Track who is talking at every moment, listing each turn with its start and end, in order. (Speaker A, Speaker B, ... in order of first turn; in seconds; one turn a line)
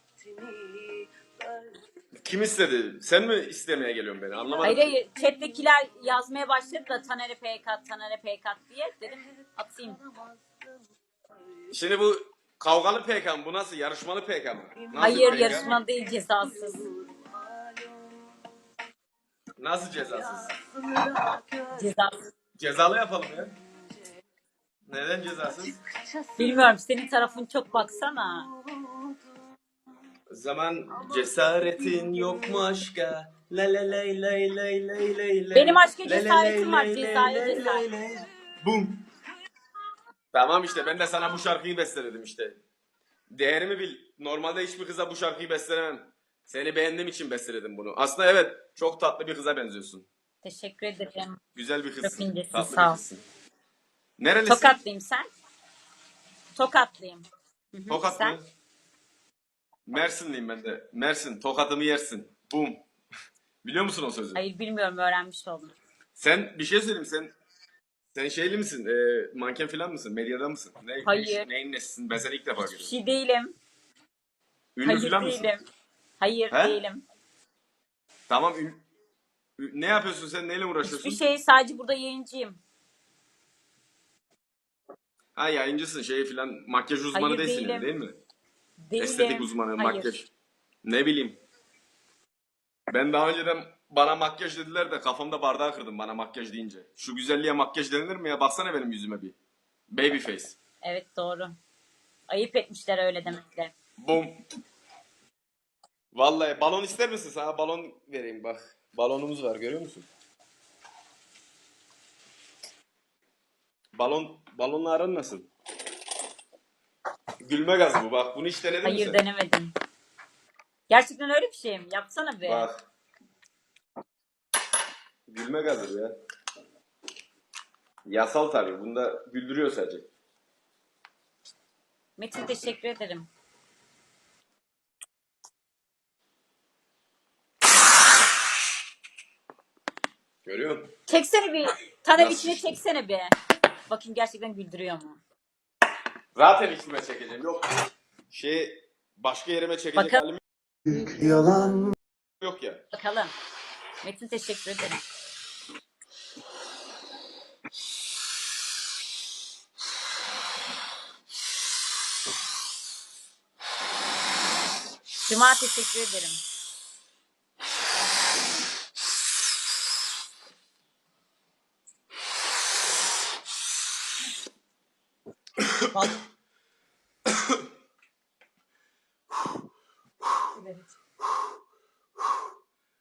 Speaker A: 0.1-1.7
Speaker B: 2.2-4.9
Speaker C: 4.6-10.0
Speaker B: 11.7-15.7
Speaker A: 15.0-15.6
Speaker C: 15.0-16.9
Speaker A: 16.8-18.2
Speaker B: 19.6-20.5
Speaker A: 20.5-21.7
Speaker C: 21.7-22.1
Speaker B: 22.6-23.5
Speaker B: 24.9-25.8
Speaker A: 25.9-26.3
Speaker C: 26.4-28.5
Speaker A: 28.7-29.2
Speaker B: 30.3-39.0
Speaker C: 35.5-37.9
Speaker B: 40.3-42.6
Speaker B: 43.3-50.1
Speaker C: 50.4-51.4
Speaker B: 51.5-53.2
Speaker C: 52.0-53.0
Speaker B: 54.2-54.8
Speaker C: 54.5-55.3
Speaker C: 56.5-58.4
Speaker B: 57.9-58.4
Speaker B: 59.9-62.8
Speaker B: 63.6-64.4
Speaker C: 64.3-65.7
Speaker B: 66.2-67.3
Speaker B: 68.1-72.9
Speaker C: 71.0-71.5
Speaker C: 72.6-73.5
Speaker B: 74.8-75.5
Speaker C: 74.8-75.6
Speaker C: 76.2-77.1
Speaker B: 76.5-76.8
Speaker B: 78.3-78.8
Speaker B: 79.6-81.2
Speaker C: 80.8-82.6
Speaker B: 85.4-88.2
Speaker C: 87.1-87.9
Speaker C: 88.9-90.1
Speaker B: 89.0-90.3
Speaker B: 90.8-91.4
Speaker B: 92.9-99.4
Speaker B: 99.9-100.6
Speaker C: 100.8-101.5
Speaker C: 102.3-103.7
Speaker B: 104.0-104.4
Speaker B: 106.1-110.1
Speaker B: 114.0-115.5
Speaker B: 117.4-119.2
Speaker C: 118.8-119.7
Speaker C: 120.9-122.7
Speaker B: 122.5-122.8
Speaker B: 125.3-126.1
Speaker B: 128.0-130.1
Speaker C: 132.2-133.3
Speaker B: 140.4-140.9
Speaker C: 141.1-143.3
Speaker B: 142.2-142.7
Speaker C: 143.9-145.2
Speaker B: 146.3-147.7
Speaker B: 148.3-150.4
Speaker C: 149.9-150.2
Speaker A: 151.4-151.8
Speaker B: 152.4-152.8
Speaker C: 152.9-153.3
Speaker C: 154.0-155.0
Speaker C: 165.3-166.4
Speaker C: 175.9-176.2
Speaker C: 180.6-180.9